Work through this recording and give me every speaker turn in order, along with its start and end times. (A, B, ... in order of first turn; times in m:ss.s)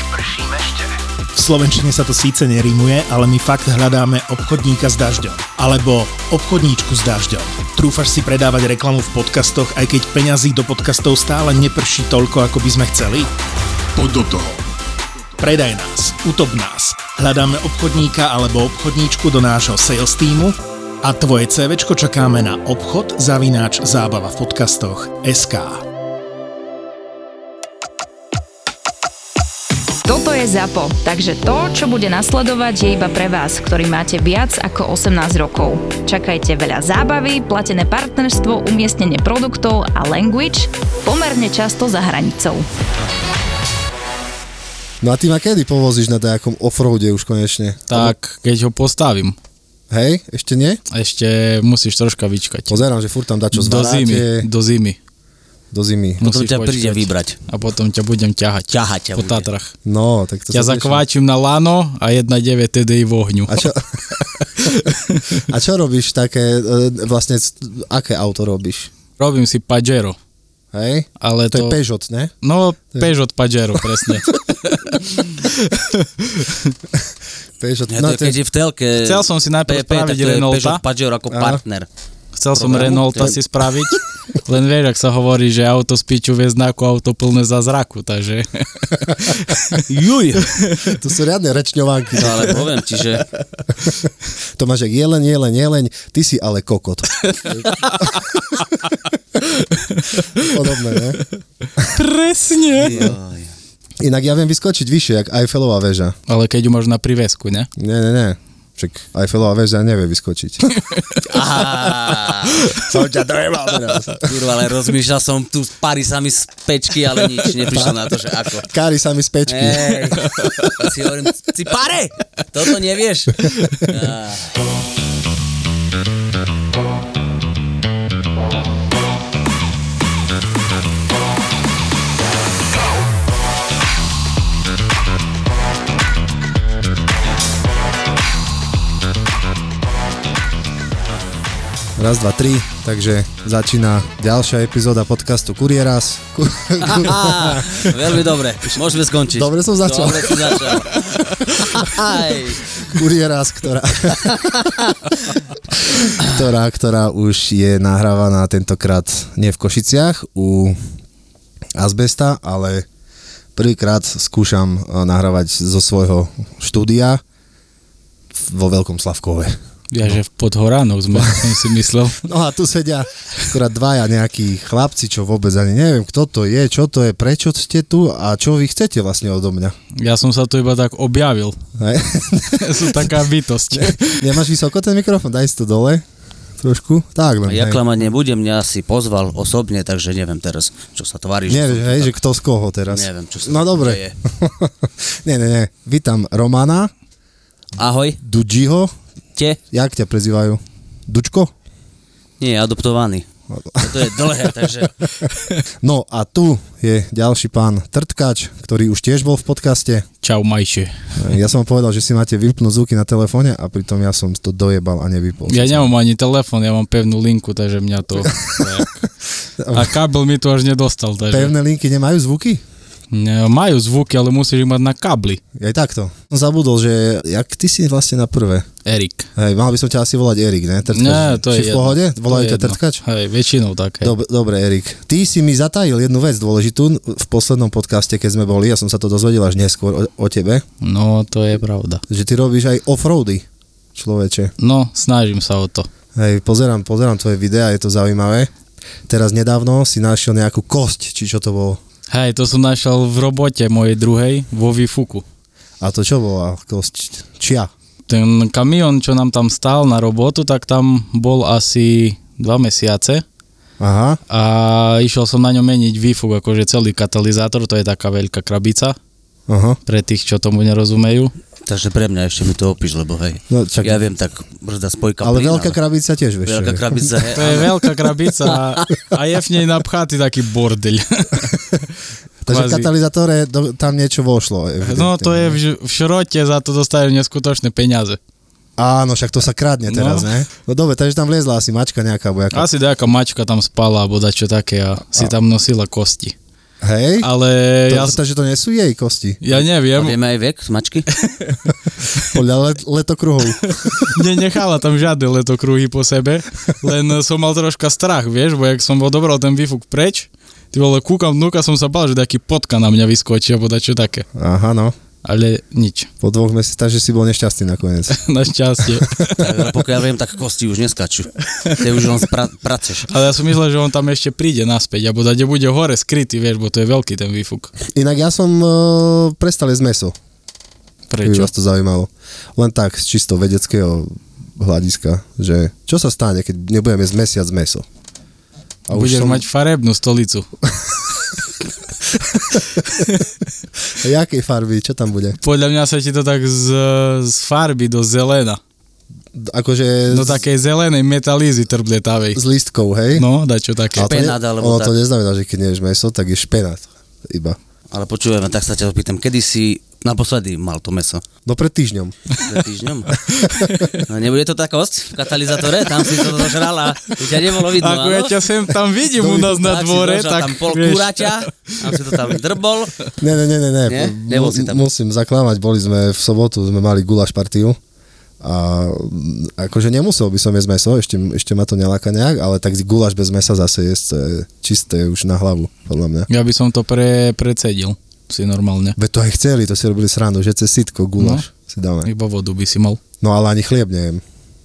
0:01.3-0:13.3 A
0:14.0-0:14.6 A
0:15.4-0:25.8 A
0:30.0-0:42.7 B
0:45.0-0:48.1 C
0:47.9-0:49.4 D
0:49.9-0:50.8 C
0:50.9-0:52.8 D
0:52.7-0:54.5 C
0:53.5-0:55.0 D
0:55.7-0:56.2 C
0:56.2-0:59.7 D
0:56.2-0:57.4 E
0:58.7-0:59.5 E
0:59.8-1:01.0 C
1:00.5-1:03.6 D
1:03.5-1:04.9 C
1:04.6-1:05.5 D
1:05.5-1:08.9 C
1:09.2-1:10.2 D
1:10.7-1:12.3 C
1:11.2-1:11.8 D
1:12.4-1:16.7 D
1:17.6-1:18.4 C
1:17.9-1:21.9 E
1:19.0-1:20.8 D
1:21.3-1:21.6 C
1:22.4-1:29.8 D
1:22.5-1:23.4 E
1:22.6-1:23.4 C
1:29.9-1:30.5 E
1:30.6-1:30.9 D
1:30.9-1:32.7 C
1:32.2-1:33.2 E
1:33.8-1:38.3 C
1:39.7-1:40.5 D
1:40.4-1:41.2 C
1:41.8-1:43.1 D
1:42.8-1:43.5 E
1:44.0-1:46.2 C
1:46.3-1:47.7 D
1:47.8-1:50.6 C
1:50.7-1:51.2 D
1:51.3-1:52.6 E
1:52.8-1:54.3 C
1:54.2-1:58.7 E
1:57.7-1:58.0 C
1:58.7-2:00.0 C
1:59.5-2:04.6 E
2:00.4-2:00.7 D
2:03.5-2:03.9 D
2:22.0-2:27.9 C
2:26.8-2:32.9 E
2:29.3-2:30.8 C
2:32.8-2:34.7 C
2:35.7-2:40.8 C
2:41.8-2:42.8 C
2:43.6-2:47.2 C
2:48.3-2:50.2 C
2:49.9-2:52.2 D
2:51.2-2:51.5 C
2:52.2-2:59.8 C
3:00.0-3:01.6 D
3:01.8-3:06.0 C
3:02.6-3:04.4 D
3:06.6-3:07.8 C
3:07.5-3:12.1 E
3:11.5-3:16.9 C
3:12.9-3:14.2 E
3:17.8-3:18.2 E
3:18.2-3:18.9 C
3:19.7-3:21.5 C
3:22.4-3:23.2 E
3:23.5-3:25.3 C
3:23.8-3:25.0 E
3:25.8-3:30.0 C
3:30.2-3:30.9 D
3:31.2-3:35.9 C
3:35.5-3:38.9 D
3:38.2-3:39.0 C
3:39.6-3:40.0 C
3:39.7-3:41.5 D
3:41.3-3:42.6 C
3:43.1-3:45.4 D
3:45.6-3:48.6 C
3:48.8-3:49.3 D
3:49.4-3:53.0 C
3:50.9-3:54.2 D
3:54.0-4:00.6 C
4:00.8-4:02.0 D
4:02.1-4:04.5 C
4:04.6-4:05.9 D
4:06.2-4:08.5 C
4:09.1-4:11.8 C
4:12.1-4:15.2 D
4:15.8-4:17.7 C
4:18.1-4:23.2 D
4:23.8-4:24.2 C
4:24.3-4:29.0 D
4:29.5-4:29.8 C
4:29.9-4:31.3 D
4:31.7-4:35.8 E
4:33.5-4:34.0 C
4:35.2-4:37.1 C
4:36.4-4:38.8 E
4:37.3-4:41.6 D
4:42.4-4:45.6 C
4:42.5-4:42.9 D
4:44.8-4:48.2 D
4:48.8-4:52.7 C
4:49.9-4:50.4 D
4:52.5-4:56.4 D
4:56.8-4:57.3 C
4:57.2-4:58.2 D
4:57.9-4:59.6 C
4:59.4-5:00.2 D
5:00.0-5:01.1 E
5:01.2-5:01.6 D
5:02.2-5:04.1 C
5:03.6-5:14.3 D
5:14.4-5:14.9 C
5:15.2-5:16.1 D
5:16.2-5:18.2 C
5:18.1-5:19.5 D
5:19.4-5:23.1 E
5:23.1-5:27.7 D
5:27.9-5:30.1 C
5:31.1-5:31.5 D
5:31.2-5:37.8 C
5:38.9-5:39.4 C
5:38.9-5:40.5 D
5:42.3-5:42.7 C
5:44.0-5:45.4 C
5:45.4-5:48.6 D
5:49.3-5:50.4 C
5:50.1-5:52.4 D
5:52.4-5:53.2 C
5:53.2-5:54.1 D
5:53.9-5:57.6 C
5:54.0-5:55.0 E
5:57.9-6:01.2 E
6:01.5-6:02.2 C
6:02.4-6:03.2 E
6:03.3-6:03.9 C
6:03.6-6:03.9 D
6:04.1-6:08.3 E
6:07.7-6:12.0 D
6:09.1-6:09.6 C
6:09.6-6:13.0 E
6:13.2-6:17.8 C
6:13.9-6:14.9 E
6:18.4-6:26.3 C
6:26.3-6:29.0 D
6:29.0-6:32.1 C
6:31.2-6:31.4 D
6:32.0-6:33.0 D
6:33.2-6:34.2 C